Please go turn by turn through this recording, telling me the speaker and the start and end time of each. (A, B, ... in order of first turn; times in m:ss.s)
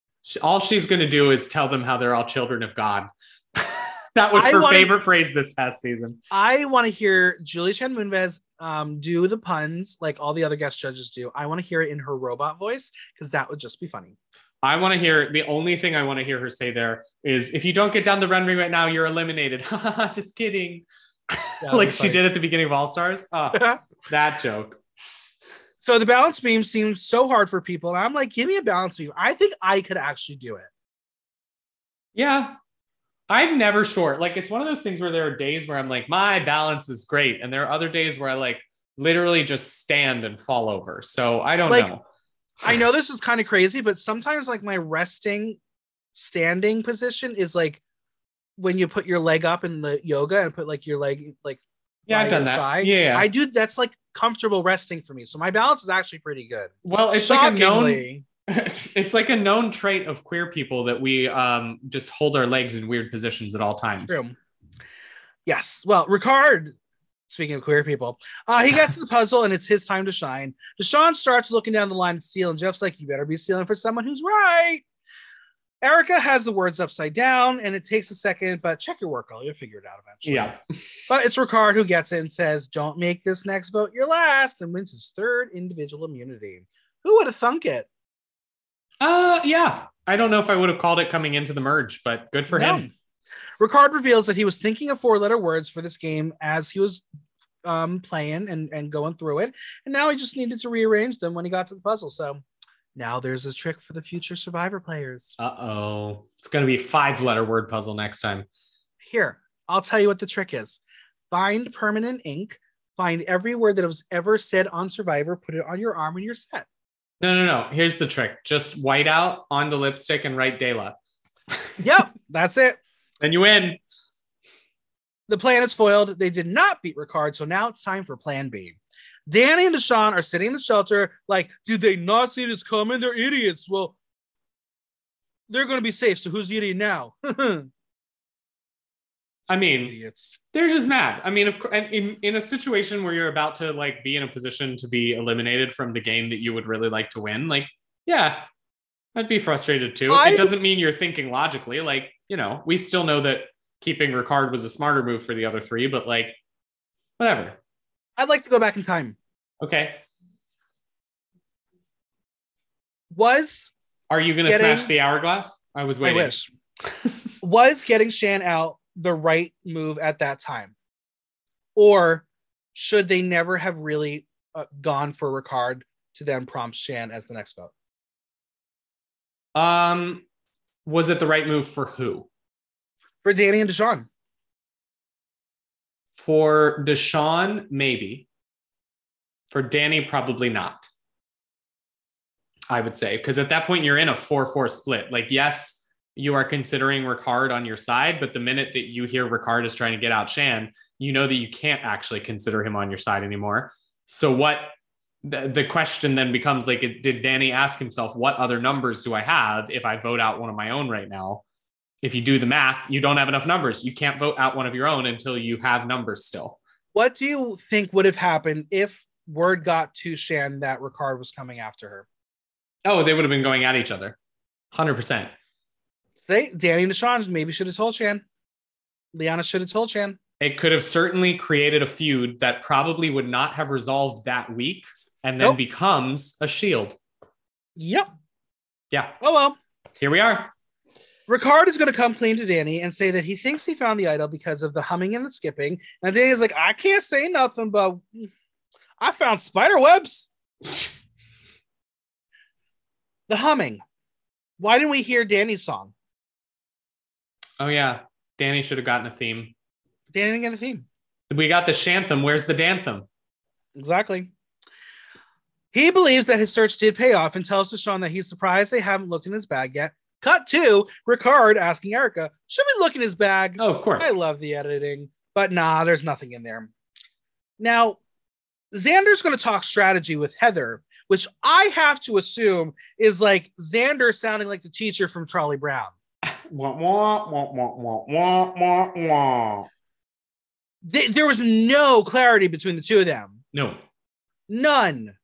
0:00.2-0:06.2 A
0:04.4-0:04.9 B
0:06.3-0:14.2 B
0:14.6-0:24.8 A
0:21.6-0:22.2 B
0:23.5-0:23.8 B
0:25.8-0:30.7 B
0:32.2-0:32.6 A
0:33.3-0:42.0 A
0:42.6-0:45.6 B
0:46.2-0:47.8 B
0:48.6-0:58.2 B
0:52.1-0:53.3 A
0:56.8-1:04.2 A
1:04.0-1:04.4 B
1:05.5-1:06.8 B
1:07.3-1:14.8 B
1:15.8-1:20.6 B
1:20.2-1:20.6 A
1:21.1-1:27.9 B
1:29.0-1:32.8 A
1:32.5-1:32.9 B
1:33.6-1:37.0 B
1:37.6-1:42.4 B
1:43.0-1:45.4 B
1:45.4-1:48.5 A
1:49.0-1:56.7 B
1:57.2-2:01.0 A
2:01.5-2:01.8 A
2:01.8-2:02.8 B
2:03.2-2:03.8 A
2:05.3-2:14.0 B
2:15.5-2:17.7 B
2:19.5-2:20.0 A
2:19.8-2:20.4 B
2:20.5-2:28.5 A
2:29.2-2:36.4 A
2:30.1-2:30.5 B
2:37.2-2:37.6 A
2:38.2-2:39.2 B
2:39.6-2:40.0 A
2:43.1-2:43.7 B
2:44.1-2:46.3 A
2:44.5-2:44.9 B
2:46.0-2:46.5 B
2:47.4-2:50.7 B
2:51.8-2:57.7 B
2:59.6-3:00.3 A
3:00.8-3:02.3 A
3:03.2-3:04.1 B
3:06.2-3:08.3 A
3:09.5-3:10.9 A
3:12.7-3:31.4 A
3:32.0-3:36.6 A
3:36.9-3:42.1 B
3:42.8-3:44.2 A
3:44.7-3:45.3 A
3:46.3-3:48.2 B
3:49.1-3:50.2 B
3:50.4-3:57.0 A
3:57.8-3:58.1 B
3:59.2-3:59.6 B
4:00.0-4:00.5 A
4:01.3-4:08.3 B
4:09.0-4:10.3 B
4:13.3-4:13.8 B
4:14.6-4:15.9 B
4:17.6-4:19.6 A
4:20.1-4:20.9 B
4:21.3-4:23.1 A
4:23.8-4:24.3 B
4:25.7-4:36.7 B
4:33.6-4:34.2 A
4:37.6-4:38.0 B
4:38.7-4:45.9 B
4:46.2-4:49.7 A
4:50.8-4:53.4 B
4:53.5-4:53.8 A
4:54.5-4:55.2 B